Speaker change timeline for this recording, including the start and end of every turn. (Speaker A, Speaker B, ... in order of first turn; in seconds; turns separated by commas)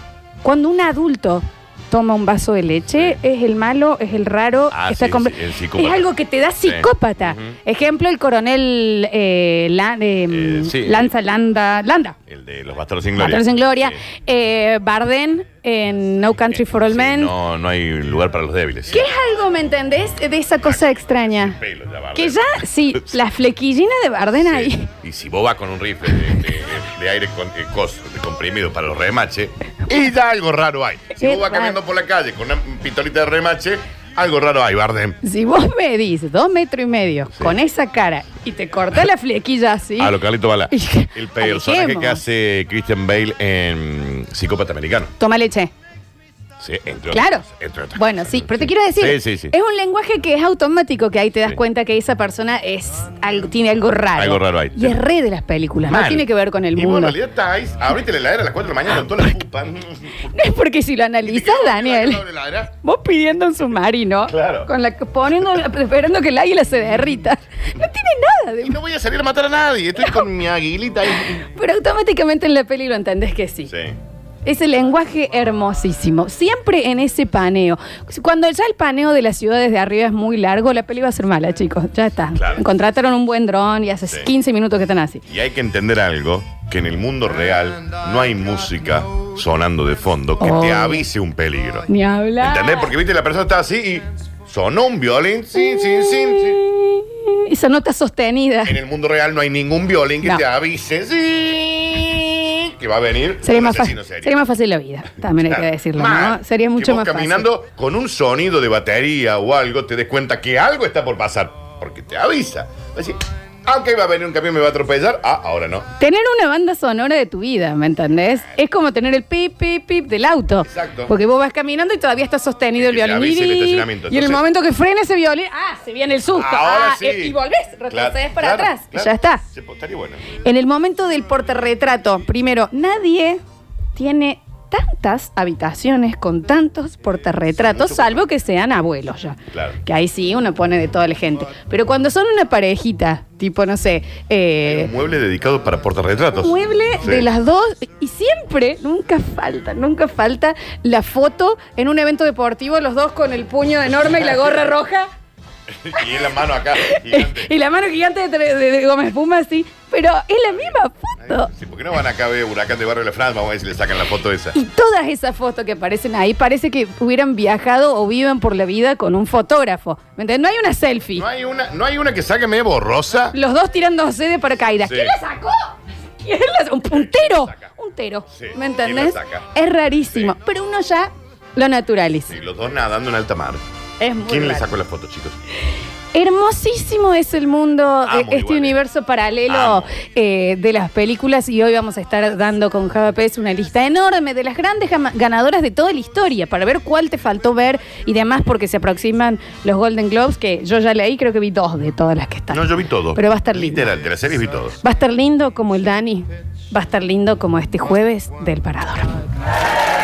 Speaker A: 0.4-12.1, Speaker B: 4.7-6.1, Speaker B: 6.6-7.6, Speaker B: 10.3-11.1, Speaker B: 12.3-14.0, Speaker A: 13.2-17.3, Speaker B: 16.5-19.1, Speaker A: 18.9-21.6, Speaker B: 20.6-23.0, Speaker A: 22.1-24.9, Speaker B: 24.3-35.2, Speaker A: 31.1-31.8, Speaker A: 35.2-40.2, Speaker B: 40.0-45.1, Speaker A: 40.7-42.2, Speaker A: 45.2-45.7, Speaker B: 46.6-49.5, Speaker A: 47.1-57.2, Speaker B: 54.1-55.0, Speaker B: 55.9-60.3, Speaker A: 60.2-68.8, Speaker B: 61.2-62.7, Speaker B: 64.3-64.7, Speaker B: 68.6-71.4, Speaker A: 70.0-70.2, Speaker A: 71.3-73.7, Speaker B: 73.7-74.0, Speaker A: 74.4-85.2, Speaker B: 82.3-82.6, Speaker B: 85.3-91.9, Speaker A: 90.4-91.0, Speaker A: 91.9-92.9, Speaker B: 92.4-96.6, Speaker A: 95.5-98.8, Speaker B: 98.7-104.4, Speaker A: 103.4-107.5, Speaker B: 105.3-115.9, Speaker A: 116.0-129.4, Speaker B: 120.7-121.1, Speaker B: 122.8-124.4, Speaker B: 126.3-127.3, Speaker B: 127.9-130.3, Speaker A: 130.4-133.4, Speaker A: 133.9-144.9, Speaker B: 137.6-138.2, Speaker B: 139.5-139.8, Speaker B: 144.6-147.3, Speaker A: 146.3-155.1, Speaker B: 155.7-157.5, Speaker A: 156.7-161.5, Speaker B: 160.5-164.6, Speaker A: 164.5-171.2, Speaker B: 171.2-173.3, Speaker A: 173.3-182.3, Speaker B: 174.8-175.2, Speaker B: 176.9-177.7, Speaker B: 178.3-179.5, Speaker B: 182.3-183.6, Speaker A: 184.0-184.7, Speaker B: 184.2-185.3, Speaker A: 186.1-203.8, Speaker B: 188.0-188.8, Speaker B: 189.5-189.9, Speaker B: 202.5-204.8, Speaker A: 204.8-209.1